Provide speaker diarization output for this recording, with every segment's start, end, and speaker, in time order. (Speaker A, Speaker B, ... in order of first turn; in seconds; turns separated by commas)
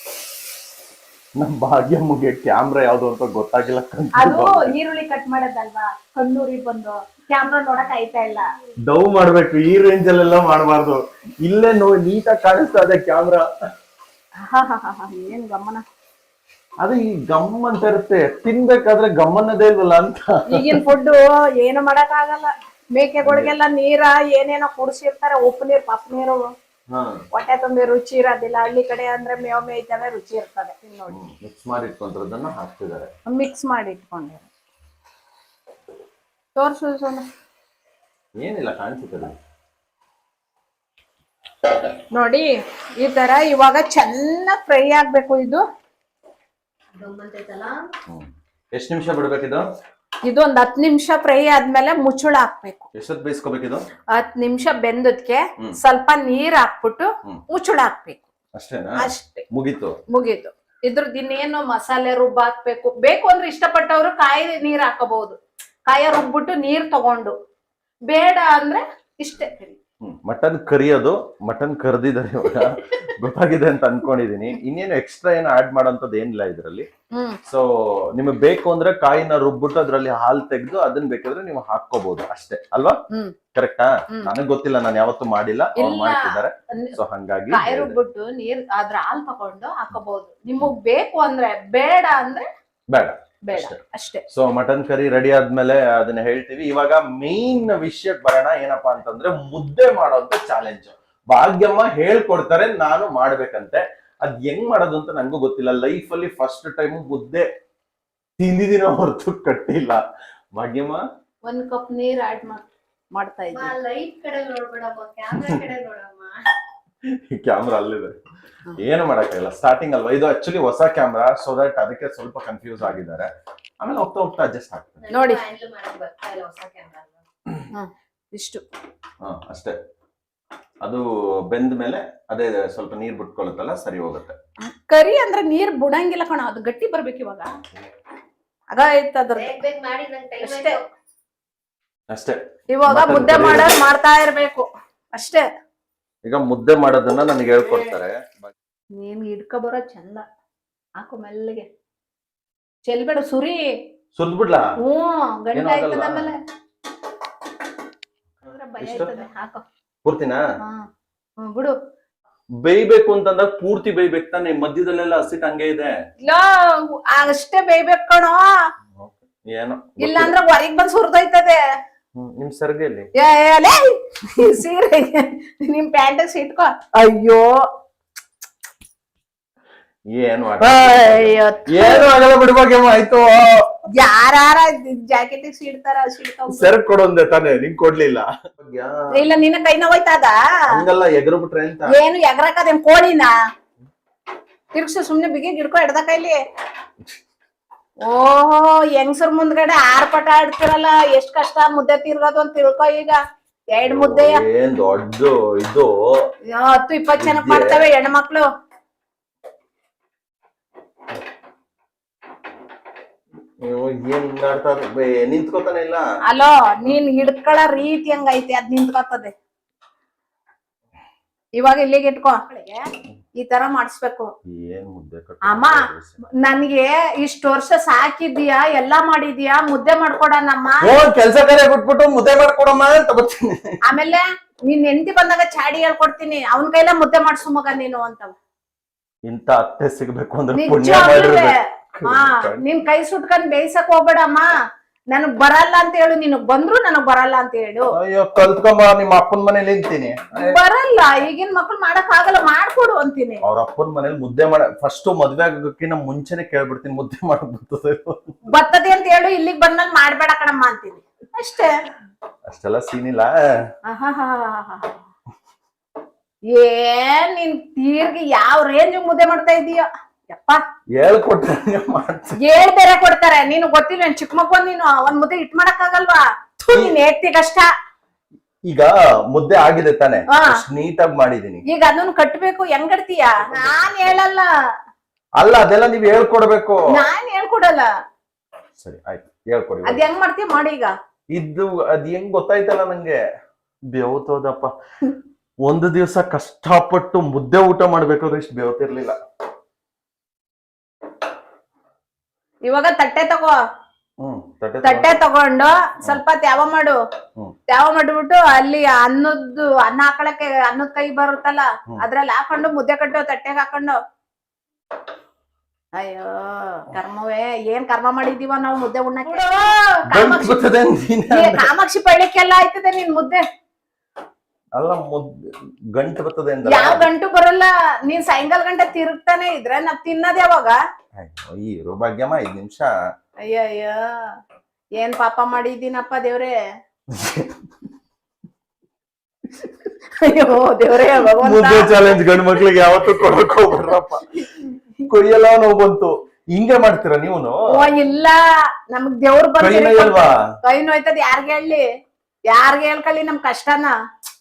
Speaker A: 1.4-4.7, Speaker B: 4.2-8.5, Speaker A: 8.9-13.5, Speaker B: 14.4-15.8, Speaker A: 16.8-20.8, Speaker B: 20.5-26.4, Speaker A: 23.2-23.5, Speaker A: 26.9-27.2, Speaker B: 27.3-31.1, Speaker A: 31.1-33.1, Speaker B: 33.3-34.5, Speaker B: 36.5-37.2, Speaker A: 38.4-39.4, Speaker B: 42.1-45.6, Speaker C: 47.0-47.8, Speaker A: 48.1-49.6, Speaker B: 50.2-52.9, Speaker A: 52.9-53.8, Speaker B: 54.1-58.2, Speaker A: 58.5-60.0, Speaker B: 59.0-59.4, Speaker B: 60.1-67.3, Speaker B: 68.1-69.8, Speaker A: 70.0-76.9, Speaker B: 77.1-77.4, Speaker A: 77.5-83.0, Speaker A: 83.5-88.0, Speaker B: 85.8-87.0, Speaker B: 87.5-92.5, Speaker A: 92.9-107.5, Speaker B: 93.5-94.2, Speaker A: 108.4-110.0, Speaker A: 110.6-111.0, Speaker B: 111.5-113.7, Speaker C: 113.5-116.5, Speaker A: 117.2-118.2, Speaker A: 118.8-123.3, Speaker A: 123.8-125.0, Speaker C: 125.0-127.2, Speaker B: 125.1-125.4, Speaker B: 127.7-128.6, Speaker A: 129.2-129.7, Speaker A: 130.8-134.3, Speaker B: 134.7-137.5, Speaker B: 138.7-139.6, Speaker C: 139.3-140.9, Speaker B: 140.4-140.8, Speaker A: 142.1-143.8, Speaker B: 142.7-145.4, Speaker A: 146.2-148.5, Speaker B: 149.0-150.2, Speaker B: 151.0-151.7, Speaker B: 152.8-153.6, Speaker A: 154.1-154.7, Speaker B: 154.8-156.3, Speaker A: 155.5-156.3, Speaker B: 158.4-159.6, Speaker A: 158.8-159.1, Speaker A: 160.0-160.4, Speaker B: 161.4-161.7, Speaker A: 162.6-165.9, Speaker B: 166.2-168.5, Speaker A: 169.0-170.3, Speaker B: 170.0-171.6, Speaker A: 172.2-173.1, Speaker B: 173.2-177.6, Speaker A: 180.1-183.6, Speaker B: 180.6-182.1, Speaker B: 184.0-186.7, Speaker A: 186.5-189.1, Speaker B: 189.1-190.3, Speaker A: 190.7-191.9, Speaker B: 191.9-193.3, Speaker B: 194.7-196.4, Speaker B: 198.1-203.2, Speaker B: 203.7-204.4, Speaker A: 203.8-205.9, Speaker B: 206.5-208.4, Speaker A: 207.2-207.8, Speaker A: 213.6-216.0, Speaker B: 216.3-219.3, Speaker B: 221.6-222.8, Speaker B: 223.4-224.3, Speaker A: 224.5-226.2, Speaker B: 225.5-225.7, Speaker B: 226.4-230.9, Speaker A: 230.8-233.8, Speaker B: 233.9-238.3, Speaker A: 239.3-242.6, Speaker B: 240.6-244.5, Speaker B: 245.1-247.9, Speaker A: 247.9-250.6, Speaker B: 250.3-253.4, Speaker A: 253.4-258.2, Speaker B: 258.5-261.7, Speaker A: 262.5-263.3, Speaker B: 263.9-265.0, Speaker B: 266.5-270.6, Speaker A: 270.9-272.4, Speaker B: 272.4-277.7, Speaker A: 278.7-281.6, Speaker B: 281.7-284.5, Speaker A: 283.5-284.2, Speaker A: 285.4-286.8, Speaker B: 286.9-287.9, Speaker A: 288.8-290.0, Speaker B: 289.8-290.9, Speaker A: 291.3-293.2, Speaker A: 293.9-294.7, Speaker A: 295.6-299.2, Speaker B: 302.6-303.5, Speaker A: 304.2-305.2, Speaker B: 304.8-307.0, Speaker B: 307.7-313.9, Speaker B: 316.0-320.7, Speaker A: 320.1-321.7, Speaker B: 321.3-323.4, Speaker A: 324.8-325.3, Speaker A: 325.9-327.1, Speaker B: 326.6-330.8, Speaker A: 331.2-332.9, Speaker B: 333.4-334.0, Speaker B: 335.0-336.5, Speaker A: 337.1-337.6, Speaker B: 340.2-342.1, Speaker A: 341.4-344.4, Speaker B: 344.4-344.7, Speaker A: 345.1-347.6, Speaker B: 347.7-348.4, Speaker B: 348.9-351.8, Speaker A: 349.6-350.4, Speaker B: 352.5-353.9